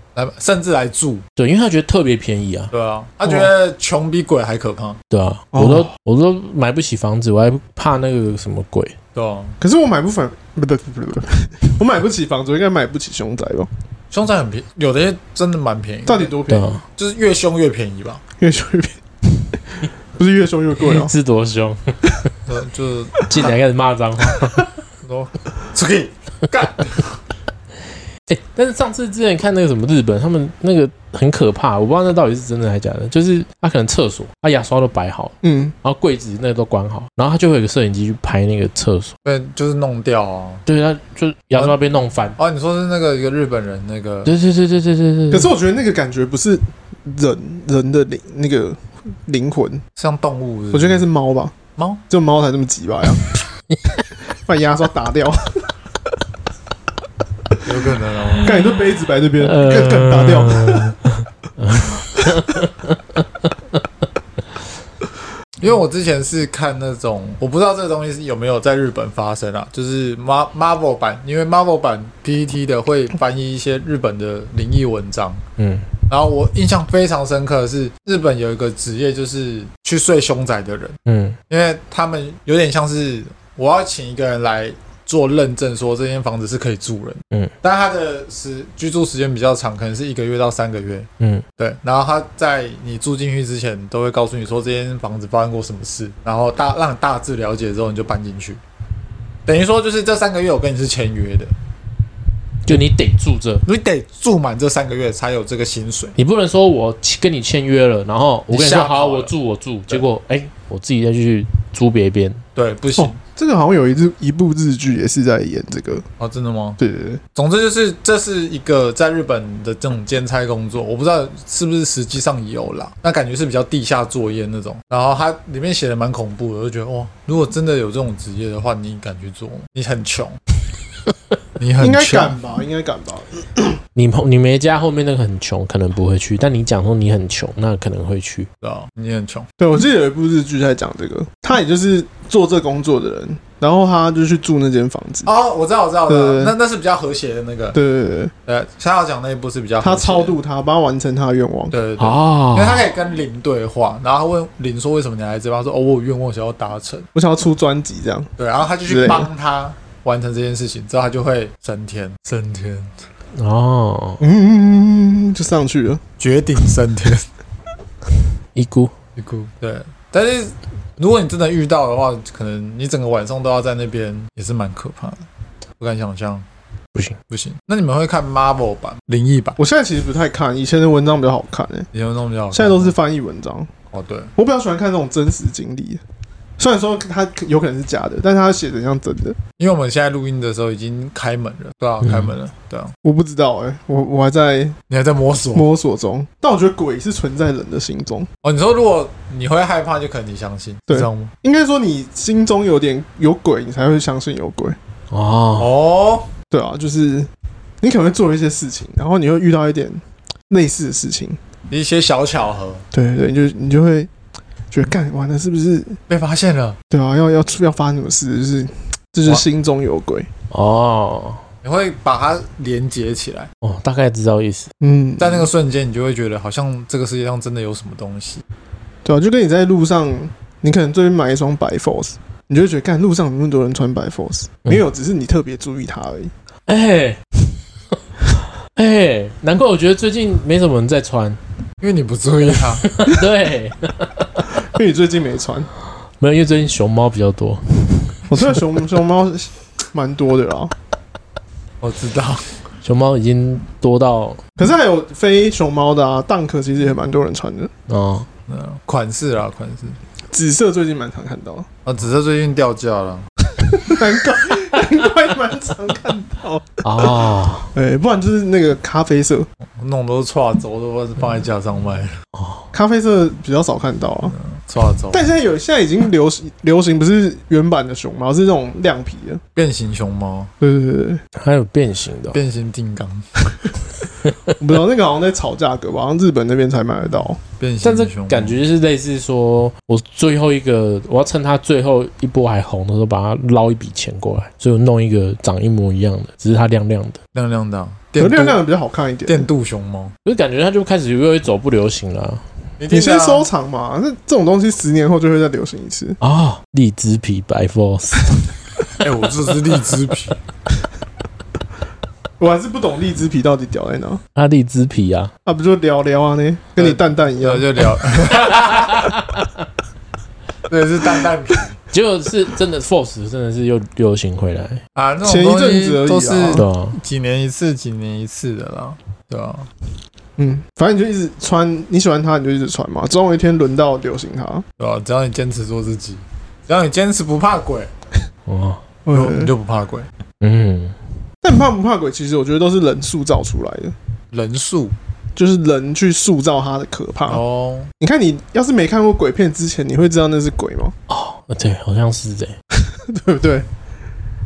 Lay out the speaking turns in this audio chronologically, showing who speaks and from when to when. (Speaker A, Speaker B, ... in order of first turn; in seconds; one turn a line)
Speaker A: 0.2-1.2
Speaker B: 1.4-2.7
Speaker A: 2.7-5.0
Speaker B: 5.1-9.0
Speaker C: 5.5-5.9
Speaker A: 9.2-9.6
Speaker C: 9.6-13.7
Speaker A: 14.1-18.2
Speaker C: 16.1-16.7
Speaker B: 16.5-16.8
Speaker C: 18.4-21.1
Speaker B: 20.8-22.0
Speaker A: 22.5-23.6
Speaker B: 23.3-24.6
Speaker A: 25.0-27.2
Speaker B: 28.3-39.1
Speaker C: 35.4-35.7
Speaker A: 39.2-40.6
Speaker B: 40.7-42.4
Speaker A: 42.4-44.3
Speaker B: 44.2-45.5
Speaker C: 45.3-49.8
Speaker A: 50.0-51.0
Speaker C: 50.7-51.5
Speaker A: 51.8-52.0
Speaker C: 52.1-53.2
Speaker C: 54.3-55.7
Speaker A: 57.6-58.5
Speaker C: 58.4-61.0
Speaker B: 59.4-63.2
Speaker A: 65.6-75.4
Speaker B: 75.6-75.9
Speaker A: 76.1-81.0
Speaker B: 81.1-81.4
Speaker A: 81.5-98.6
Speaker A: 99.5-101.5
Speaker B: 102.7-103.6
Speaker A: 103.7-106.2
Speaker B: 106.2-112.4
Speaker A: 108.5-109.3
Speaker A: 112.5-113.2
Speaker C: 113.0-116.0
Speaker A: 116.2-116.8
Speaker C: 116.8-117.2
Speaker A: 117.3-130.4
Speaker A: 131.6-132.4
Speaker C: 131.8-133.8
Speaker B: 134.0-138.5
Speaker A: 138.6-139.5
Speaker C: 139.6-145.3
Speaker A: 145.3-147.8
Speaker C: 146.1-146.6
Speaker C: 147.7-148.3
Speaker A: 148.5-150.4
Speaker C: 149.8-151.8
Speaker A: 151.7-157.1
Speaker B: 152.0-152.9
Speaker C: 157.2-158.3
Speaker A: 158.4-162.9
Speaker C: 158.8-159.3
Speaker B: 163.3-164.2
Speaker C: 164.2-166.0
Speaker A: 166.2-167.3
Speaker B: 168.6-168.9
Speaker A: 169.2-175.2
Speaker A: 175.8-176.4
Speaker A: 177.3-179.6
Speaker C: 179.6-181.9
Speaker A: 181.9-182.9
Speaker C: 182.5-183.7
Speaker A: 183.9-184.3
Speaker C: 184.4-186.0
Speaker C: 186.6-189.4
Speaker A: 189.6-192.9
Speaker B: 192.0-192.3
Speaker C: 193.0-194.8
Speaker A: 194.9-195.7
Speaker C: 195.5-198.3
Speaker A: 198.4-201.3
Speaker C: 200.9-204.8
Speaker B: 205.1-205.7
Speaker A: 205.6-206.3
Speaker C: 206.5-207.3
Speaker C: 207.8-211.4
Speaker A: 211.7-212.8
Speaker C: 212.9-214.1
Speaker C: 214.7-216.0
Speaker A: 216.1-216.8
Speaker C: 216.9-220.3
Speaker B: 220.5-221.4
Speaker A: 221.6-223.5
Speaker B: 223.6-224.7
Speaker C: 224.8-225.5
Speaker A: 225.2-228.4
Speaker C: 229.1-236.3
Speaker B: 236.7-237.2
Speaker B: 238.6-241.4
Speaker A: 241.8-243.0
Speaker B: 242.8-244.5
Speaker C: 244.6-245.7
Speaker B: 246.2-248.6
Speaker C: 248.3-250.7
Speaker A: 251.8-252.6
Speaker B: 252.8-254.4
Speaker C: 254.6-257.7
Speaker B: 257.9-258.3
Speaker A: 258.5-260.0
Speaker C: 260.3-261.7
Speaker A: 261.9-263.3
Speaker C: 263.6-267.1
Speaker B: 266.8-267.7
Speaker C: 267.7-269.5
Speaker A: 269.8-272.2
Speaker B: 272.4-272.7
Speaker C: 272.7-274.4
Speaker A: 274.3-275.2
Speaker C: 275.1-279.4
Speaker A: 279.6-280.5
Speaker C: 280.6-281.2
Speaker B: 281.4-282.4
Speaker A: 282.3-283.4
Speaker C: 284.6-287.4
Speaker A: 287.6-288.6
Speaker B: 287.8-297.2
Speaker A: 297.3-298.6
Speaker C: 298.2-299.5
Speaker A: 299.3-300.1
Speaker B: 300.2-302.4
Speaker A: 302.8-303.5
Speaker C: 302.9-306.2
Speaker B: 306.2-308.4
Speaker A: 309.0-310.4
Speaker C: 312.4-314.2
Speaker B: 314.4-315.3
Speaker C: 315.4-317.7
Speaker A: 316.8-319.0
Speaker B: 318.3-319.5
Speaker A: 320.7-321.8
Speaker B: 321.9-324.8
Speaker A: 324.9-329.7
Speaker C: 325.2-326.6
Speaker B: 326.6-327.0
Speaker C: 330.4-334.7
Speaker A: 334.8-337.9
Speaker B: 338.5-338.8
Speaker C: 339.1-339.5
Speaker A: 339.1-340.1
Speaker B: 340.4-341.0
Speaker C: 341.4-343.9
Speaker A: 344.3-344.9
Speaker C: 345.4-347.4
Speaker A: 347.3-347.9
Speaker C: 348.0-350.9
Speaker B: 351.1-352.6
Speaker C: 352.8-353.7